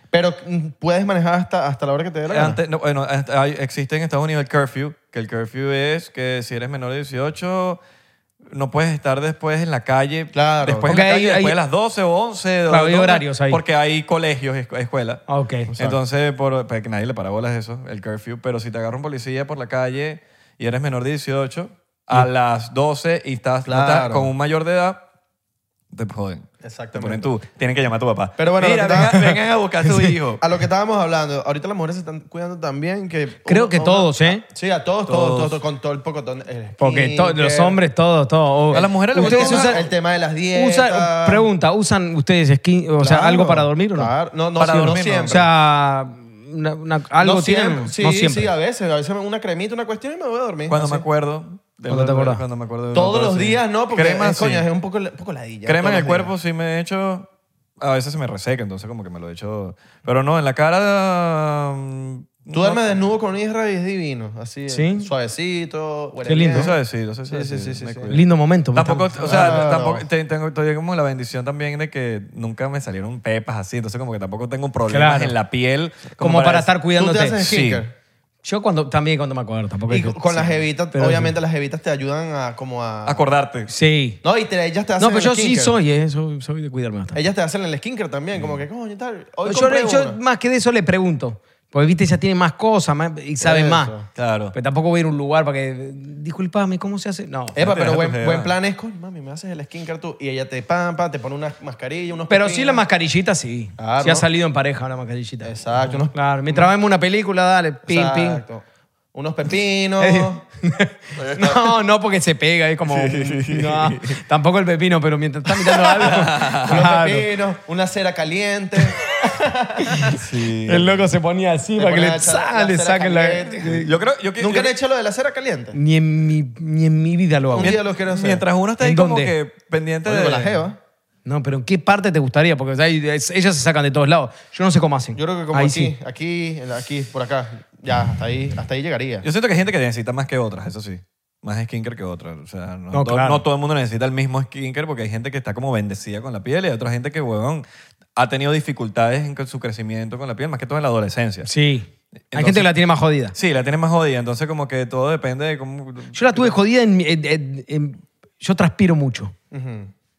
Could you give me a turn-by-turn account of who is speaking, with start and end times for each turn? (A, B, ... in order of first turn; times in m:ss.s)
0:00.1-0:02.6 A
0:02.3-0:07.8 B
0:08.5-0:15.2 B
0:10.3-0:10.9 A
0:10.9-0:11.6 C
0:12.7-0:13.6 C
0:15.3-0:15.7 C
0:15.7-0:16.0 A
0:15.8-0:25.0 B
0:23.6-0:24.3 A
0:25.9-0:30.4 B
0:26.6-0:27.3 A
0:28.4-0:29.3 A
0:30.4-0:37.8 A
0:33.4-0:34.4 C
0:35.1-0:35.6 B
0:36.8-0:39.8 C
0:38.7-0:39.8 B
0:38.7-0:41.5 A
0:40.5-0:44.1 C
0:43.0-0:45.5 A
0:44.6-0:45.4 B
0:45.3-0:48.5 C
0:47.2-0:51.0 A
0:50.7-0:54.7 B
0:51.9-0:52.4 C
0:52.9-0:56.3 A
0:55.6-0:57.3 B
0:57.8-1:02.9 B
1:02.5-1:06.8 A
1:04.7-1:05.1 C
1:06.2-1:06.7 C
1:06.5-1:08.2 B
1:07.3-1:08.1 A
1:08.1-1:09.6 C
1:08.7-1:16.7 B
1:09.2-1:10.0 A
1:14.9-1:15.3 C
1:16.2-1:17.4 C
1:17.0-1:17.9 A
1:17.4-1:17.8 B
1:18.4-1:21.3 C
1:19.9-1:23.2 A
1:23.0-1:23.7 B
1:23.7-1:24.2 C
1:24.2-1:25.7 A
1:25.0-1:27.2 C
1:27.1-1:30.2 A
1:29.4-1:33.9 C
1:33.4-1:34.1 A
1:34.2-1:34.5 B
1:34.5-1:37.6 C
1:37.5-1:42.8 A
1:37.6-1:38.5 B
1:42.3-1:45.5 C
1:43.8-1:44.2 A
1:45.4-1:46.7 A
1:46.1-1:48.4 C
1:47.8-1:50.4 A
1:50.0-1:57.3 C
1:51.2-1:51.7 B
1:52.8-1:54.2 B
1:55.7-1:56.8 B
1:56.0-2:00.2 A
1:59.8-2:00.1 C
2:00.1-2:01.0 B
2:00.6-2:03.9 C
2:01.8-2:05.8 A
2:03.8-2:04.7 B
2:05.7-2:07.8 C
2:07.5-2:08.4 A
2:07.6-2:10.6 B
2:08.8-2:09.3 C
2:10.0-2:10.8 A
2:11.2-2:15.9 C
2:15.1-2:19.2 A
2:19.2-2:27.6 B
2:22.9-2:23.4 C
2:28.2-2:31.5 B
2:31.4-2:33.3 C
2:32.3-2:32.7 B
2:33.3-2:36.5 B
2:36.1-2:39.3 C
2:39.5-2:39.9 A